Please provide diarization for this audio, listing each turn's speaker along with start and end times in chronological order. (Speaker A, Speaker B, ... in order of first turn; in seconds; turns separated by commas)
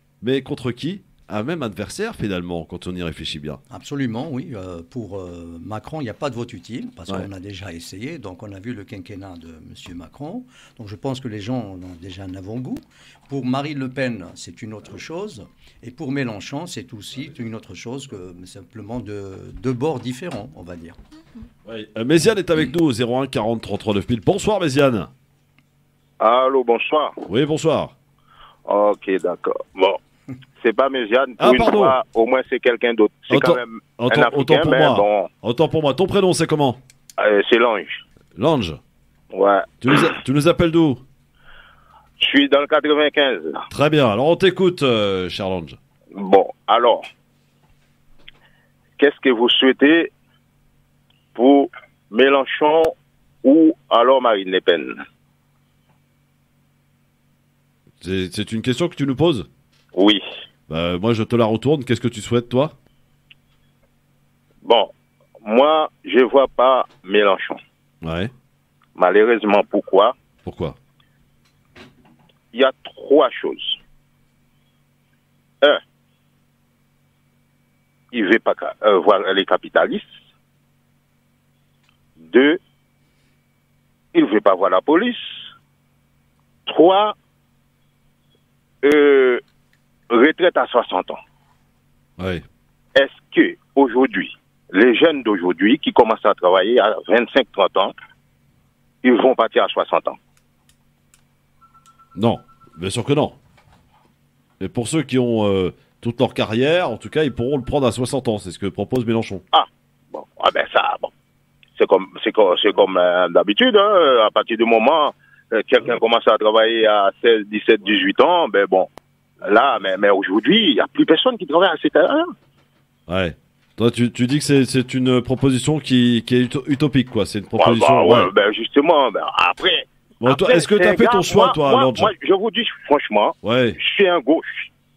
Speaker A: 0.2-3.6, Speaker B: 3.7-21.0, Speaker A: 21.6-25.1, Speaker C: 26.2-27.2, Speaker A: 27.3-27.9, Speaker C: 28.7-30.0, Speaker C: 30.6-35.3, Speaker A: 31.4-32.0, Speaker A: 33.3-36.8, Speaker C: 37.2-38.0, Speaker A: 38.4-38.8, Speaker C: 39.3-40.1, Speaker A: 39.8-41.0, Speaker C: 42.2-43.6, Speaker A: 43.7-45.8, Speaker C: 46.1-47.0, Speaker C: 49.0-50.1, Speaker C: 51.4-52.9, Speaker C: 53.4-55.0, Speaker A: 58.0-59.5, Speaker C: 60.0-60.2, Speaker A: 60.7-62.8, Speaker C: 64.6-64.9, Speaker C: 65.4-67.6, Speaker A: 68.0-68.3, Speaker C: 69.0-70.2, Speaker A: 70.4-70.8, Speaker C: 72.5-73.8, Speaker C: 78.1-80.1, Speaker C: 82.2-82.6, Speaker C: 84.1-85.5, Speaker C: 86.7-87.2, Speaker C: 88.8-89.4, Speaker C: 90.1-91.2, Speaker A: 92.2-92.4, Speaker C: 93.0-97.9, Speaker C: 99.0-100.2, Speaker A: 102.2-103.4, Speaker A: 104.6-109.4, Speaker C: 109.5-111.1, Speaker C: 111.8-118.9, Speaker C: 119.4-122.3, Speaker A: 123.1-128.3, Speaker C: 127.6-134.7, Speaker A: 130.2-132.1, Speaker A: 133.4-133.8